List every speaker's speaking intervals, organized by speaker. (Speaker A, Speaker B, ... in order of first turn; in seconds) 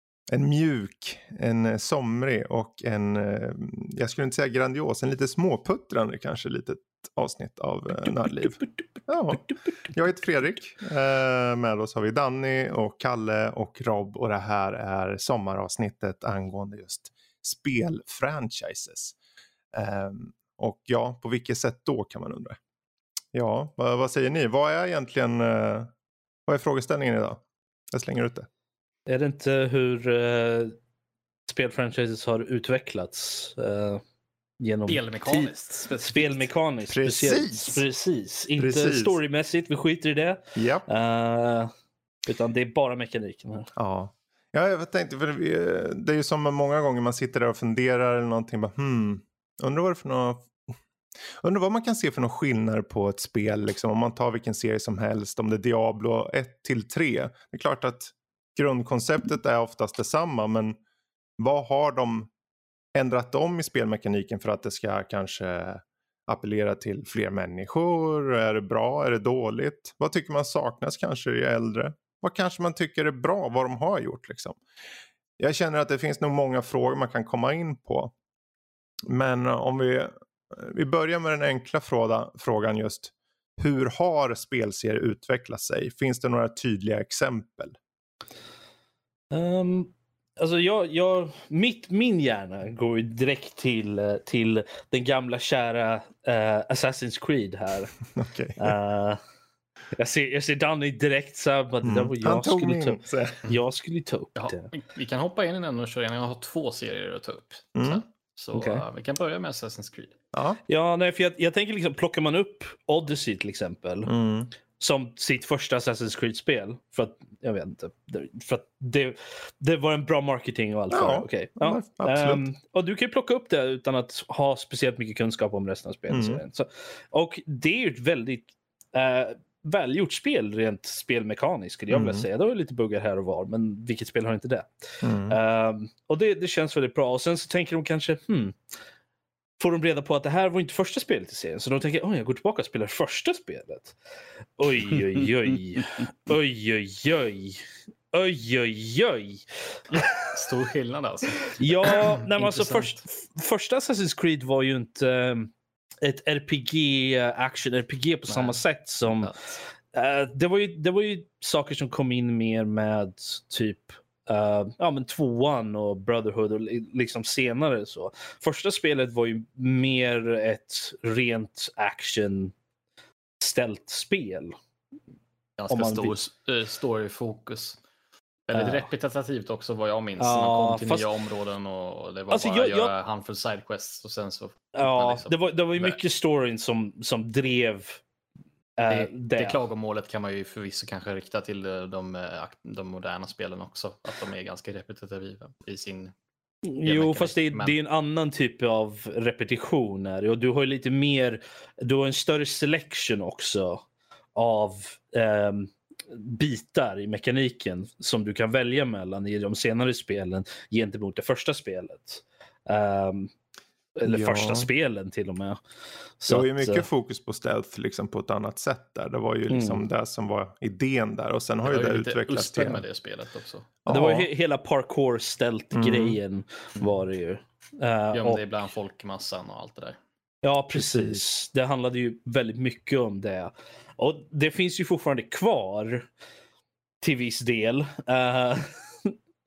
Speaker A: 0.3-19.1, 19.7-22.6, 23.3-25.9, 26.5-28.5, 36.9-37.8, 38.6-39.2, 40.6-40.9, 43.8-50.6, 51.4-60.8, 61.4-62.3, 63.0-74.6, 75.4-78.1, 79.1-87.8, 98.1-98.7, 101.8-103.4, 107.8-108.0, 110.3-110.6, 114.0-114.5, 120.9-122.5, 126.1-126.4, 131.9-132.3, 135.0-135.4, 214.0-214.7, 216.3-222.8, 223.8-224.3, 225.7-226.2, 230.8-231.2
Speaker B: 8.2-8.7, 29.1-30.8, 31.5-34.0, 34.6-41.7, 42.3-43.7, 89.3-97.9, 98.6-99.2, 100.0-104.7, 108.5-108.8, 110.7-114.1, 114.8-138.6, 139.6-144.0, 144.6-150.5, 151.6-155.5, 156.0-159.3, 159.9-172.5, 173.4-174.6, 175.7-176.2, 178.5-178.9, 180.2-181.1, 182.3-182.9, 184.8-188.0, 188.8-189.6, 196.7-213.3, 214.0-215.6, 216.2-216.9, 219.5-219.8, 223.9-228.4, 230.4-236.1, 237.0-239.2
Speaker C: 34.9-36.5, 104.4-110.2, 150.3-153.0, 158.3-158.6, 159.2-159.6, 175.6-177.8, 178.5-186.0, 188.9-196.1, 196.8-197.8, 221.6-223.7, 228.1-230.0